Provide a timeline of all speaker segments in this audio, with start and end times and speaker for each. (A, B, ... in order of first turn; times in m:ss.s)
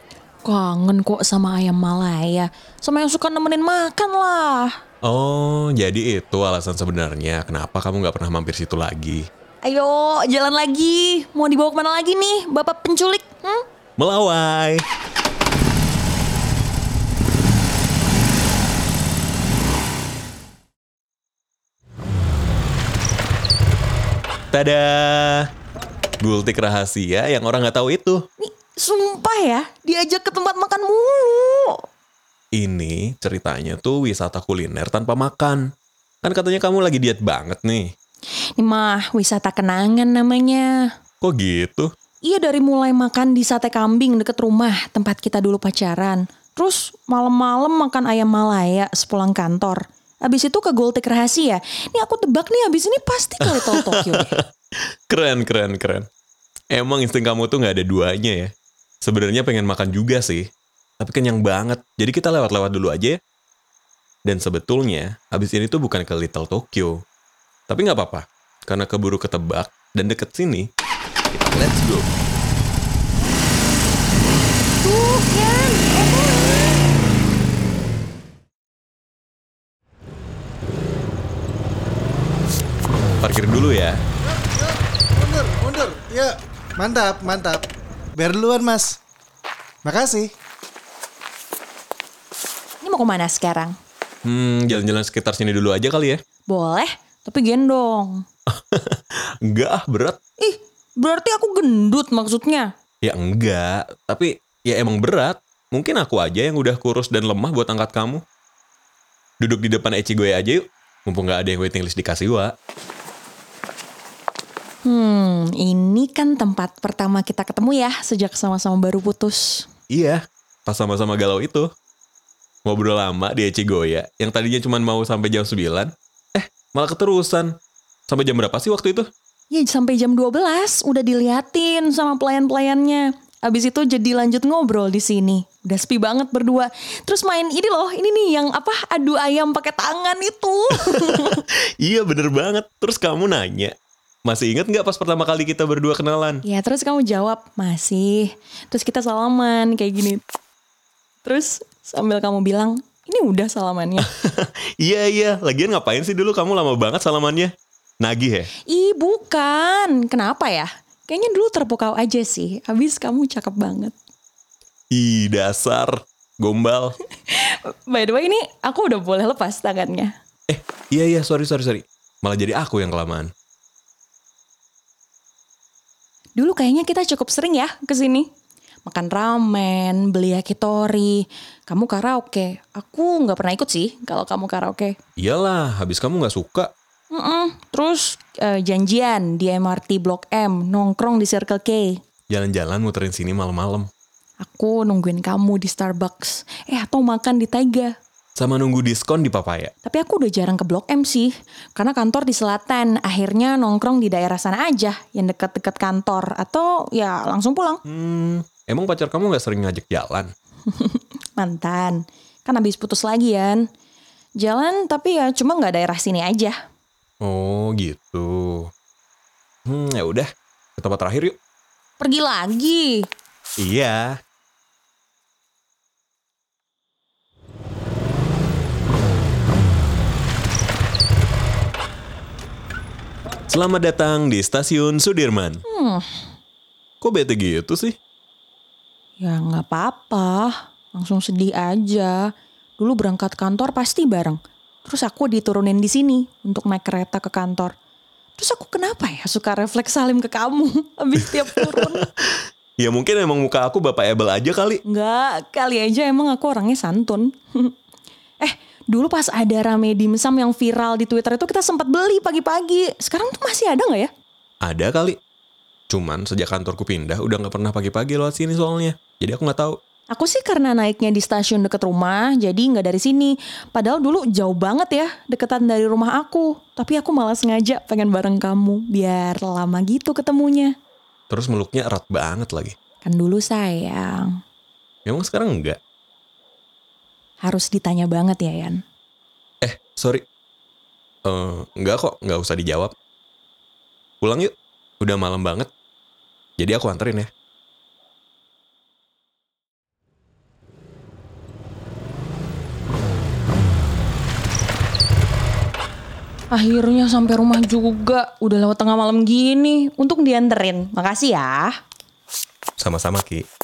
0:00.4-0:04.7 A
0:05.0-0:09.2 B
0:09.6-0:13.6 A
0:14.0-0:14.8 B
0:24.5-0:25.5 B
0:26.2-0:28.2 B
0:28.4-0:31.8 A
0:32.5-0:35.7 B
0:36.2-0:37.9 B
0:38.6-0:40.7 A
0:41.2-0:41.9 B
0:42.2-0:54.4 A
0:53.4-0:54.4 B
0:55.1-0:56.1 B
0:56.7-0:58.5 B
0:59.0-1:00.5 B
1:01.0-1:03.2 B
1:04.2-1:07.0 B
1:07.7-1:10.7 B
1:11.3-1:12.1 B
1:14.8-1:16.7 A
1:23.2-1:24.0 B
1:24.3-1:29.0 C
1:29.8-1:30.3 C
1:32.8-1:33.7 A
1:34.2-1:36.2 B
1:36.5-1:38.2 A
1:38.5-1:40.2 B
1:40.4-1:42.7 A
1:43.0-1:48.2 B
1:49.4-1:52.5 B
1:54.8-1:59.6 A
1:59.9-2:01.7 B
2:02.6-2:07.5 B
2:08.1-2:09.1 B
2:09.5-2:21.4 A
2:20.9-2:23.7 B
2:24.2-2:26.4 B
2:26.4-2:30.2 A
2:31.2-2:34.1 A
2:34.0-2:38.5 B
2:38.7-2:43.9 A
2:44.9-2:47.0 B
2:47.3-2:50.1 A
2:50.5-2:53.3 B
2:56.4-2:58.3 A
2:58.8-3:05.0 A
3:05.2-3:06.7 B
3:07.1-3:12.0 A
3:12.3-3:13.9 B
3:14.4-3:17.9 A
3:18.4-3:19.7 B
3:19.8-3:27.8 A
3:27.8-3:30.3 B
3:30.7-3:33.6 A
3:34.4-3:36.6 A
3:37.2-3:38.7 B
3:39.7-3:41.4 B
3:42.0-3:43.0 A
3:43.6-3:44.2 B
3:53.5-3:55.6 B
3:55.7-3:56.2 A
3:57.0-3:58.0 B
3:59.2-4:07.7 A
4:08.4-4:12.0 A
4:11.7-4:14.8 B
4:14.8-4:17.7 A
4:18.4-4:24.1 A
4:24.6-4:25.2 B
4:25.9-4:29.8 B
4:30.1-4:40.7 A
4:41.3-4:42.7 B
4:43.0-4:44.2 A
4:45.0-4:45.8 B
4:47.4-4:48.8 A
4:49.6-4:50.2 B
4:51.2-4:52.9 B
4:54.2-4:55.7 B
4:56.6-4:57.3 B
5:06.5-5:11.7 A
5:12.8-5:13.4 B